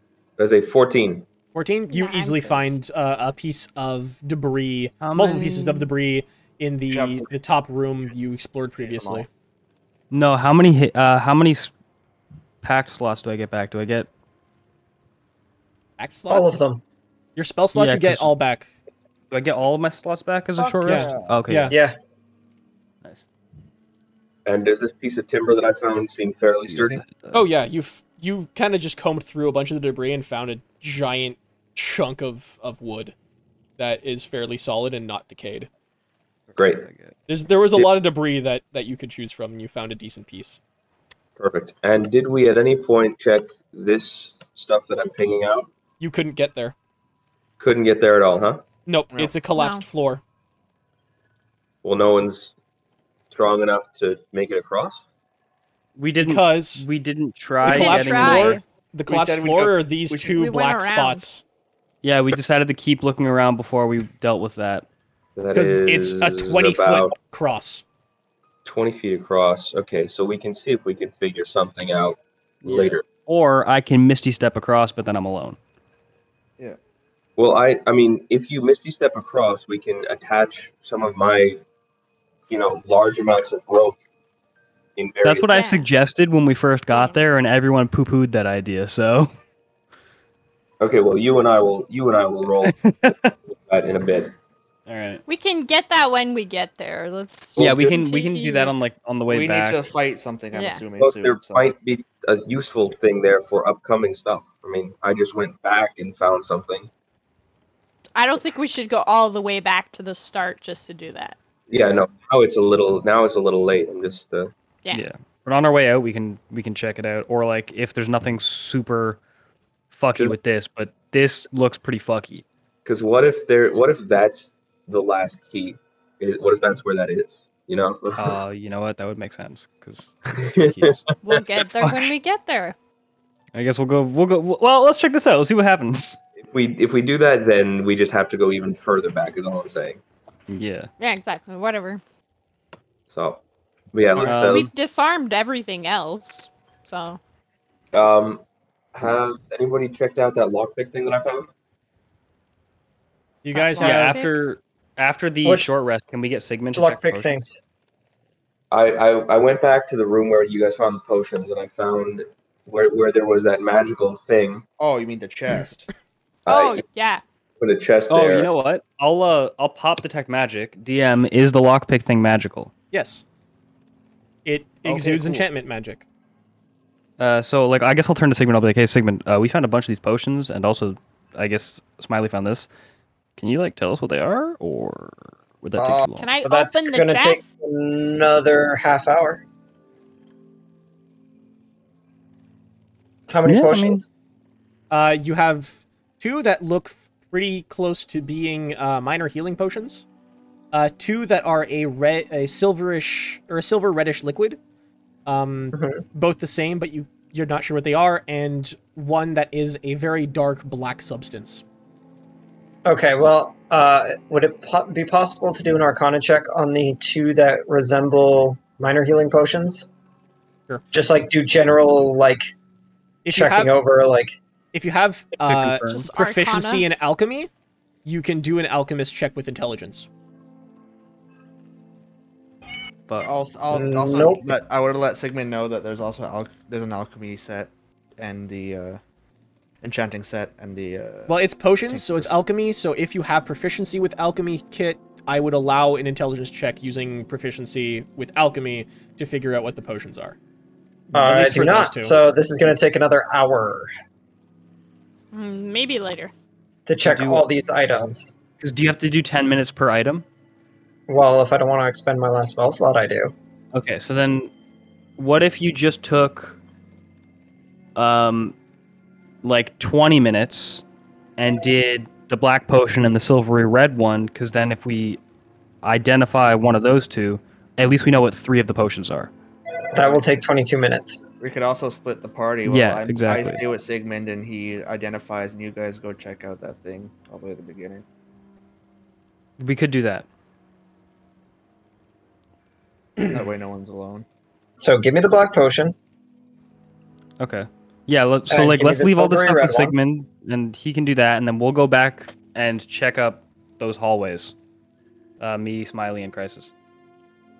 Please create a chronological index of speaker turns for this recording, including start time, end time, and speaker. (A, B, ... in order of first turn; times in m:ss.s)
0:00.4-0:01.2 A
0:01.5-0:09.3 B
0:01.9-0:02.7 C
0:05.0-0:05.9 D
0:06.9-0:07.3 E
0:08.8-0:09.2 E
0:10.1-0:11.7 D
0:12.6-0:14.1 D
0:16.0-0:16.6 B
0:16.3-0:16.8 F
0:17.4-0:18.7 B
0:17.7-0:18.3 D
0:19.3-0:21.8 D
0:20.6-0:21.3 E
0:20.8-0:21.7 B
0:21.7-0:22.0 F
0:24.4-0:27.0 A
0:26.7-0:27.4 D
0:27.3-0:33.1 B
0:33.8-0:35.7 B
0:36.5-0:37.1 D
0:36.6-0:36.9 A
0:37.3-0:40.6 B
0:41.4-0:45.7 A
0:46.0-0:46.7 B
0:47.6-0:48.6 A
0:48.8-0:50.2 B
0:49.5-0:49.8 C
0:51.8-0:52.5 A
0:53.3-0:55.0 A
0:56.0-0:58.6 D
0:56.2-0:56.8 B
0:57.6-0:58.6 C
0:57.6-1:01.4 B
0:59.1-1:00.4 E
1:00.3-1:01.2 C
1:02.0-1:04.8 D
1:05.4-1:07.1 A
1:05.5-1:07.8 B
1:08.6-1:13.0 A
1:12.6-1:15.6 D
1:17.4-1:21.6 A
1:22.5-1:24.0 A
1:25.0-1:25.5 A
1:25.2-1:29.3 D
1:25.4-1:25.9 C
1:26.9-1:27.2 C
1:30.8-1:32.7 A
1:32.6-1:33.3 D
1:33.5-1:34.3 A
1:34.9-1:35.2 D
1:35.3-1:38.8 C
1:37.6-1:37.9 A
1:37.6-1:39.8 D
1:39.3-1:41.7 E
1:40.5-1:40.8 C
1:41.0-1:46.9 A
1:48.2-1:51.4 C
1:51.7-1:54.5 A
1:54.9-1:59.2 D
1:59.9-2:02.4 D
2:02.8-2:08.4 A
2:08.2-2:11.0 D
2:10.3-2:12.0 A
2:11.2-2:12.7 C
2:13.5-2:16.2 D
2:16.4-2:20.0 A
2:20.5-2:20.9 D
2:21.0-2:22.0 C
2:23.1-2:23.4 A
2:23.9-2:24.7 A
2:24.2-2:24.7 D
2:24.2-2:27.2 C
2:27.9-2:28.4 A
2:28.9-2:31.5 A
2:33.4-2:34.2 B
2:33.5-2:34.3 C
2:33.8-2:37.4 D
2:35.4-2:35.7 F
2:36.7-2:37.4 F
2:38.7-2:44.6 A
2:44.8-2:45.9 E
2:46.4-2:46.8 A
2:46.5-2:47.2 C
2:47.6-2:48.5 A
2:48.1-2:52.7 D
2:52.9-2:53.2 B
2:54.4-2:56.0 B
2:54.8-2:55.4 D
2:57.2-3:02.7 D
3:03.4-3:06.3 D
3:05.8-3:09.4 F
3:06.2-3:07.4 C
3:13.3-3:14.0 F
3:13.4-3:14.0 D
3:14.9-3:20.0 B
3:20.7-3:24.6 B
3:25.2-3:31.6 B
3:25.7-3:26.0 F
3:32.8-3:39.9 F
3:40.9-3:42.5 F
3:43.2-3:43.7 B
3:43.3-3:44.4 F
3:44.7-3:47.5 B
3:45.4-3:46.0 D
3:45.9-3:46.9 C
3:48.0-3:50.1 B
3:53.2-3:59.0 E
3:53.7-3:54.4 F
3:59.8-4:02.3 E
4:01.3-4:10.4 B
4:11.1-4:12.2 B
4:11.1-4:13.9 F
4:15.3-4:16.3 C
4:16.9-4:18.3 F
4:17.0-4:17.5 D
4:18.6-4:20.2 D
4:21.1-4:23.3 F
4:23.7-4:24.5 D
4:25.2-4:26.6 D
4:28.0-4:28.5 D
4:29.4-4:30.8 D
4:31.4-4:35.2 D
4:35.8-4:39.3 D
4:39.9-4:41.2 F
4:41.4-4:48.0 E
4:42.7-4:43.6 D
4:49.6-4:50.2 D
4:53.3-4:54.2 E
4:54.8-4:55.9 F
4:57.4-5:04.5 D
4:58.5-5:00.0 F
5:05.4-5:06.7 D